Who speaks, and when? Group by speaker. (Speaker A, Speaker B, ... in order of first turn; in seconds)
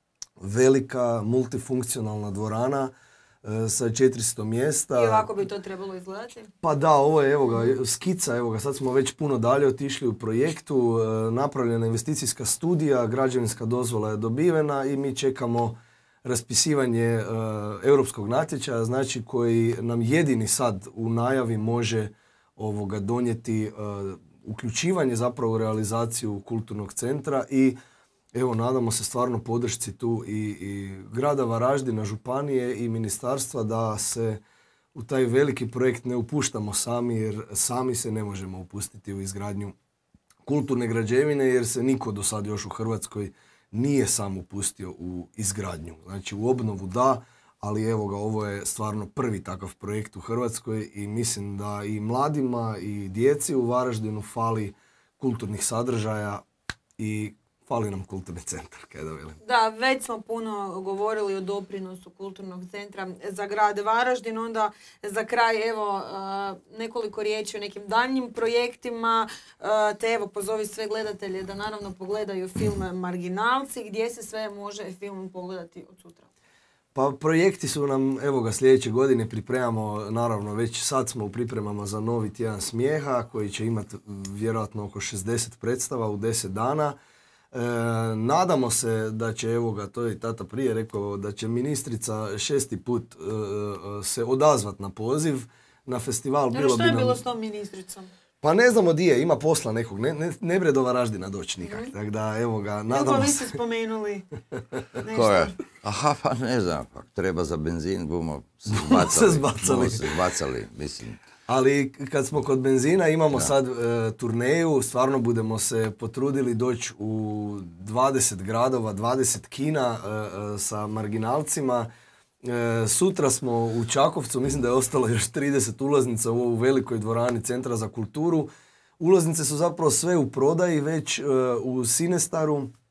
Speaker A: 0.4-5.3, 6.6-27.8, 28.3-34.4, 35.0-39.8, 40.5-56.5, 57.0-59.4, 77.0-87.0, 87.5-97.2, 98.4-103.6, 108.7-110.2, 111.5-121.9, 122.4-132.7
Speaker B: 5.0-6.5, 59.4-76.3, 96.5-98.1, 101.6-101.9, 102.9-104.3, 105.0-105.5
Speaker C: 105.1-111.2